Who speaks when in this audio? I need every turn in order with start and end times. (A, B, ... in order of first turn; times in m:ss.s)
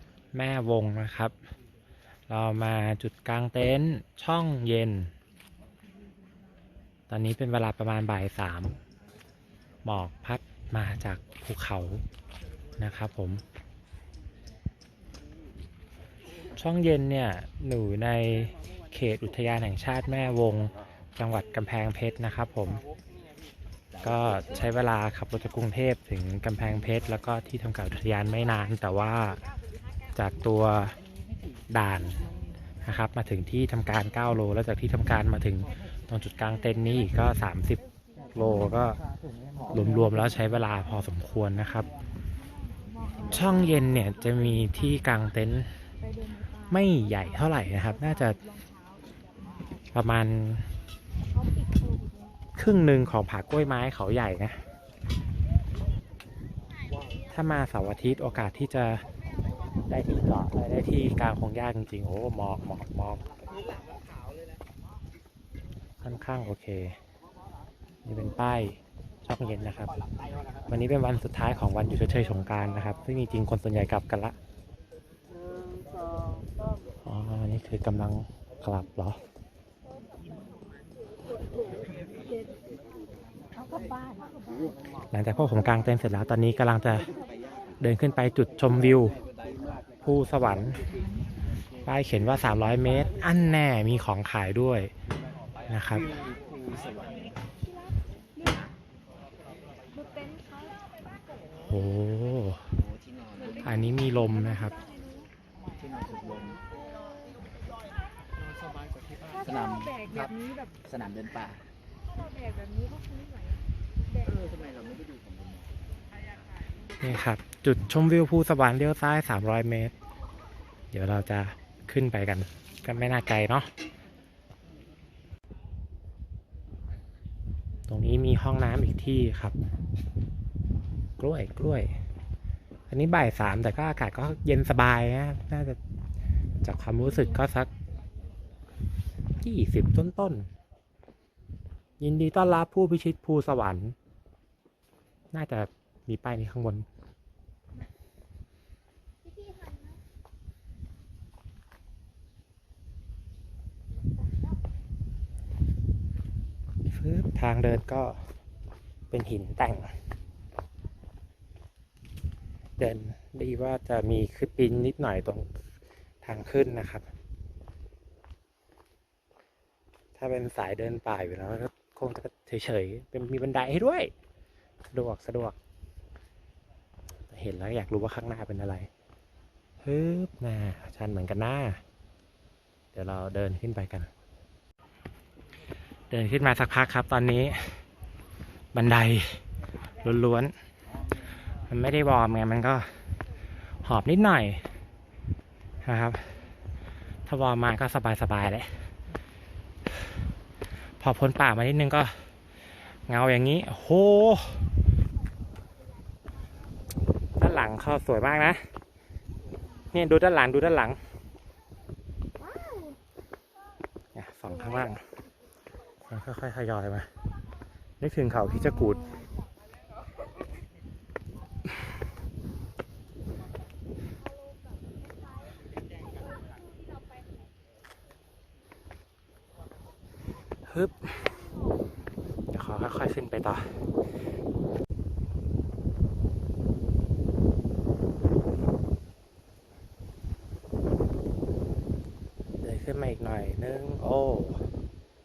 0:00.3-0:01.3 A
0:02.3-0:05.1 A
0:07.1-0:08.8 A
0:09.8-0:12.0 A
0:12.8-0:13.4 A
0:16.5-0:22.8 A
0:23.9-0:24.8 B
0:24.0-0:29.4 A
0:30.1-0:31.0 A
0:31.7-0:32.2 A
0:32.8-0:37.8 A
0:38.3-0:39.0 A
0:39.7-0:41.9 A
0:42.8-0:44.1 C
0:43.3-0:45.7 A
0:46.0-0:49.0 C
0:46.7-0:48.4 A
0:49.9-0:50.7 A
0:51.2-0:52.3 C
0:52.5-0:54.6 A
0:57.3-0:59.0 A
0:59.9-1:03.2 A
1:06.0-1:07.0 A
1:08.0-1:09.9 A
1:10.7-1:14.4 A
1:17.0-1:19.2 A
1:23.5-1:24.8 C
1:25.1-1:27.1 A
1:27.8-1:29.2 A
1:30.0-1:30.8 A
1:31.8-1:34.9 A
1:35.7-1:36.1 A
1:36.1-1:37.3 B
1:37.6-1:38.7 C
1:39.9-1:41.1 C
1:41.6-1:42.7 A
1:42.7-1:43.8 B
1:43.5-1:45.3 C
1:43.6-1:44.8 A
1:45.7-1:46.6 B
1:49.2-1:50.8 C
1:49.3-1:50.3 B
1:50.8-1:51.6 B
1:52.0-1:54.3 C
1:54.2-1:55.8 B
1:57.0-1:59.9 A
2:00.9-2:03.7 A
2:07.9-2:09.6 A
2:11.2-2:11.9 A
2:12.9-2:15.8 A
2:16.6-2:17.7 A
2:19.4-2:20.5 A
2:22.0-2:23.9 A
2:25.3-2:26.9 A
2:29.2-2:30.0 C
2:36.9-2:38.2 A
2:39.1-2:39.9 A
2:42.8-2:45.5 A
2:46.2-2:47.1 A
2:50.2-2:54.1 A
2:54.9-2:55.6 A
2:57.3-2:58.9 A
2:59.8-3:01.8 A
3:02.9-3:04.1 A
3:06.1-3:07.8 A
3:08.7-3:09.4 A
3:10.0-3:10.5 A
3:11.7-3:12.9 A
3:13.8-3:14.6 A
3:15.8-3:16.4 A
3:17.2-3:18.7 A
3:21.0-3:22.2 A
3:23.1-3:24.7 A
3:27.4-3:28.6 A
3:29.9-3:31.0 A
3:32.4-3:33.0 C
3:34.1-3:35.0 A
3:36.0-3:37.1 A
3:38.0-3:39.0 A
3:38.4-3:39.3 C
3:44.4-3:45.6 C
3:46.1-3:46.8 C
3:50.7-3:51.2 A
3:52.5-3:53.8 A
4:02.6-4:04.7 A